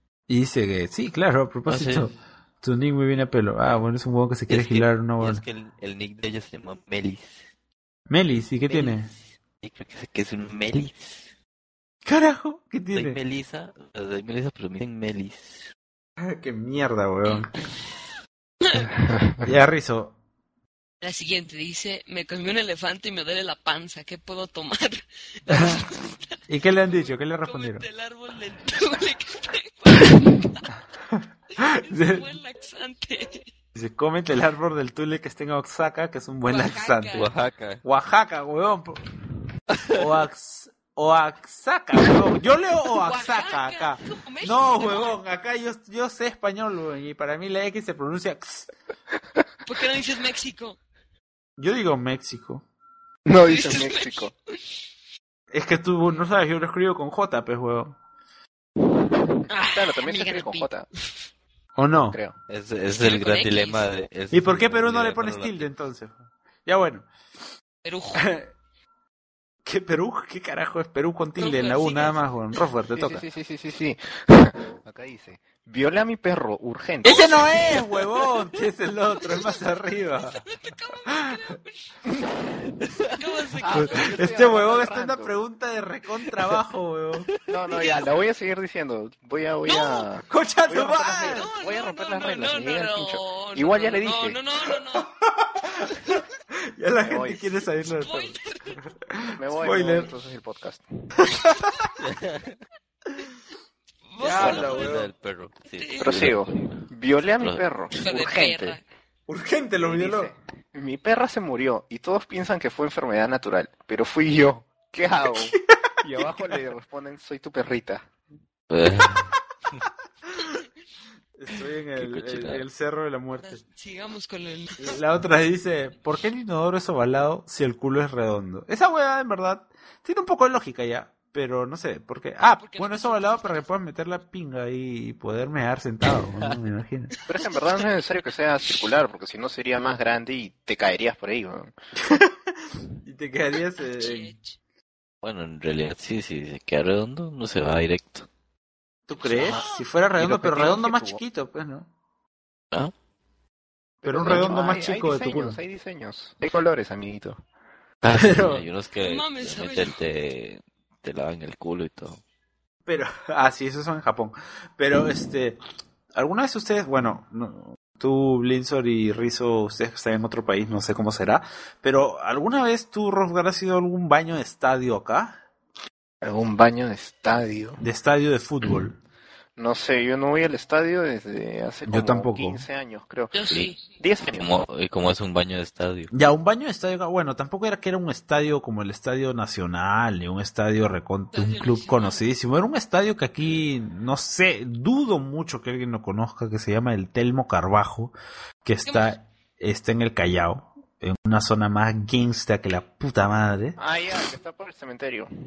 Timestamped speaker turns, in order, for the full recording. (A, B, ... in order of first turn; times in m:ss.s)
0:00.3-0:05.4 A
0:01.6-0:02.1 B
0:04.5-0:07.4 B
0:08.1-0:09.1 A
0:09.6-0:11.3 B
0:12.0-0:13.2 A
0:12.9-0:15.7 B
0:16.2-0:17.5 A
0:18.6-0:18.9 C
0:19.0-0:19.4 D
0:19.4-0:20.1 A
0:21.0-0:26.4 C
0:25.5-0:25.8 A
0:26.5-0:27.8 A
0:26.9-0:30.8 C
0:31.6-0:32.3 A
0:31.6-0:33.5 C
0:33.7-0:37.3 A
0:36.5-0:37.3 C
0:37.1-0:37.8 B
0:37.8-0:39.0 A
0:39.9-0:48.7 A
0:42.9-0:45.2 C
0:49.6-0:50.8 C
0:51.6-0:52.6 A
0:53.2-0:54.3 D
0:53.4-0:54.3 C
0:55.5-0:58.0 A
0:59.5-1:00.7 C
0:59.7-1:00.9 D
1:01.8-1:02.2 A
1:02.5-1:05.7 B
1:02.9-1:03.9 C
1:04.3-1:07.1 A
1:07.8-1:08.3 C
1:08.1-1:08.5 A
1:09.6-1:13.2 A
1:11.4-1:12.2 C
1:12.9-1:17.3 D
1:17.0-1:20.4 A
1:17.1-1:18.4 C
1:19.2-1:19.8 C
1:20.3-1:21.7 C
1:21.0-1:21.4 A
1:22.9-1:23.2 B
1:23.2-1:24.2 C
1:23.6-1:25.4 D
1:23.7-1:27.3 A
1:27.5-1:34.4 D
1:27.7-1:28.1 C
1:29.7-1:30.1 C
1:30.3-1:31.5 A
1:31.2-1:35.1 C
1:34.9-1:36.2 A
1:36.8-1:40.1 A
1:37.0-1:37.5 D
1:38.0-1:38.8 C
1:39.4-1:40.8 D
1:41.2-1:41.9 A
1:42.0-1:42.6 B
1:44.1-1:44.9 C
1:44.2-1:45.1 A
1:44.3-1:46.8 B
1:45.7-1:46.3 C
1:46.0-1:48.8 D
1:47.9-1:48.8 C
1:49.3-1:50.3 A
1:49.8-1:58.1 D
1:58.7-1:59.3 B
2:01.4-2:03.6 A
2:02.0-2:02.6 B
2:03.4-2:05.0 C
2:04.8-2:17.1 A
2:12.6-2:13.7 C
2:17.3-2:21.7 D
2:17.4-2:17.9 C
2:22.0-2:24.3 A
2:23.8-2:24.5 C
2:25.2-2:28.3 B
2:29.1-2:31.9 A
2:29.3-2:29.8 C
2:30.2-2:31.2 D
2:34.0-2:35.6 A
2:34.0-2:37.4 D
2:38.0-2:42.2 B
2:38.1-2:38.6 A
2:39.0-2:40.0 C
2:42.8-2:45.6 A
2:46.1-2:55.4 A
2:56.2-2:57.8 D
2:57.8-2:59.0 A
2:59.6-3:04.6 D
3:01.8-3:02.6 A
3:03.3-3:03.8 C
3:04.4-3:06.1 B
3:06.1-3:18.1 A
3:11.3-3:12.3 C
3:18.6-3:23.8 A
3:18.8-3:19.1 C
3:23.8-3:25.3 D